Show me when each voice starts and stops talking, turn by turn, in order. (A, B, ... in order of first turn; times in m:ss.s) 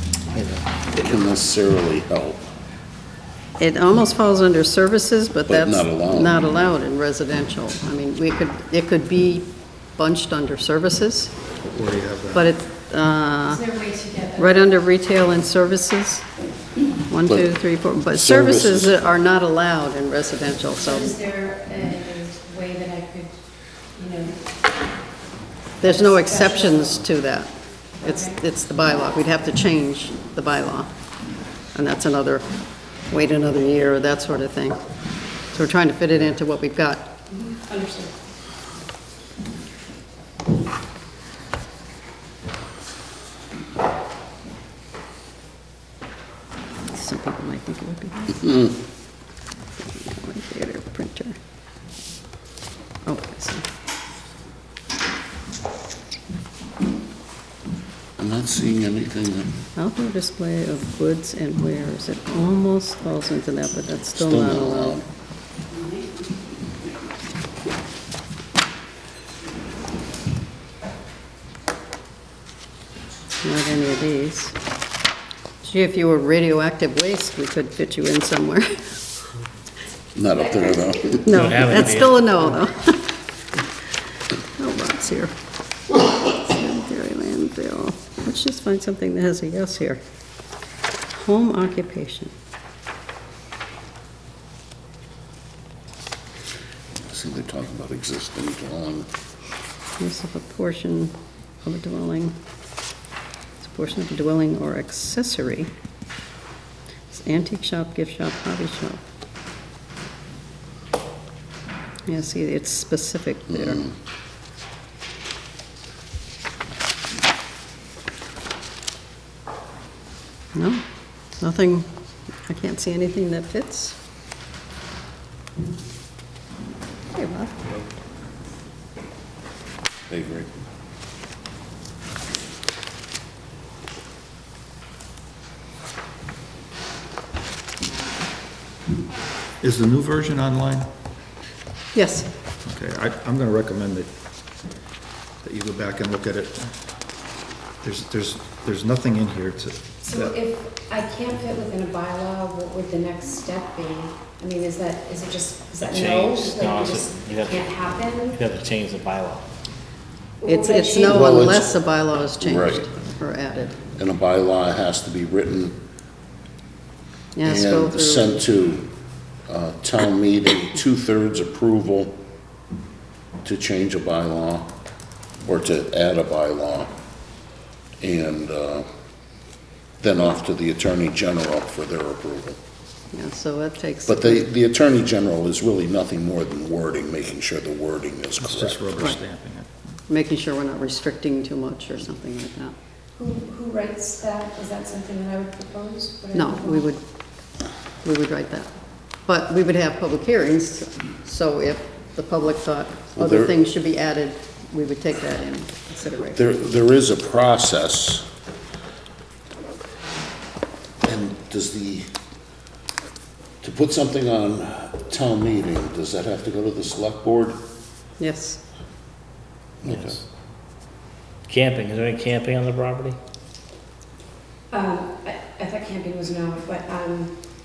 0:00.9-0:02.4 A
0:03.6-0:11.3 B
0:05.5-0:06.3 A
0:11.7-0:12.5 C
0:12.3-0:13.6 B
0:13.5-0:14.7 D
0:14.4-0:16.2 B
0:17.1-0:21.2 B
0:18.1-0:19.0 A
0:20.8-0:23.3 D
0:23.9-0:24.4 D
0:25.8-0:30.9 B
0:25.8-0:27.0 D
0:28.0-0:28.4 D
0:31.7-0:32.4 B
0:33.1-0:34.8 B
0:35.5-0:37.1 B
0:37.4-0:38.1 D
0:46.9-0:48.7 B
0:49.8-0:51.4 B
0:53.0-0:53.6 B
0:58.2-0:59.5 A
0:59.8-1:05.0 B
1:04.2-1:05.0 A
1:13.4-1:14.5 B
1:15.6-1:18.7 B
1:20.1-1:21.2 A
1:21.1-1:23.1 B
1:21.2-1:22.6 E
1:24.6-1:25.3 B
1:26.2-1:30.0 B
1:31.1-1:32.3 B
1:37.0-1:39.1 A
1:40.0-1:42.4 B
1:43.6-1:45.7 B
1:47.1-1:49.0 B
1:52.1-1:53.9 B
2:00.5-2:00.8 B
2:01.4-2:01.9 B
2:02.5-2:04.0 B
2:07.1-2:07.6 B
2:10.1-2:10.5 A
2:19.6-2:20.9 C
2:21.9-2:22.3 B
2:22.6-2:24.1 C
2:25.4-2:26.7 C
2:27.8-2:30.4 C
2:30.0-2:38.4 D
2:35.8-2:39.4 E
2:40.4-2:41.2 D
2:40.4-2:43.8 B
2:41.0-2:41.7 A
2:42.4-2:42.8 A
2:44.0-2:45.8 A
2:47.3-2:48.4 B
2:47.4-2:48.9 A
2:49.5-2:52.2 A
2:53.4-2:54.7 A
2:55.4-2:56.9 A
2:58.0-2:58.8 A
3:00.0-3:02.6 A
3:03.1-3:04.5 B
3:04.1-3:08.8 A
3:08.4-3:09.7 C
3:10.1-3:12.7 B
3:13.2-3:16.8 D
3:16.3-3:17.0 B
3:18.0-3:18.7 B
3:19.2-3:26.4 B
3:23.2-3:23.6 A
3:26.3-3:28.2 A
3:31.0-3:32.1 A
3:33.6-3:37.6 A
3:38.2-3:38.6 B
3:39.8-3:40.2 A
3:39.8-3:40.2 E
3:41.5-3:43.2 E
3:44.7-3:47.3 D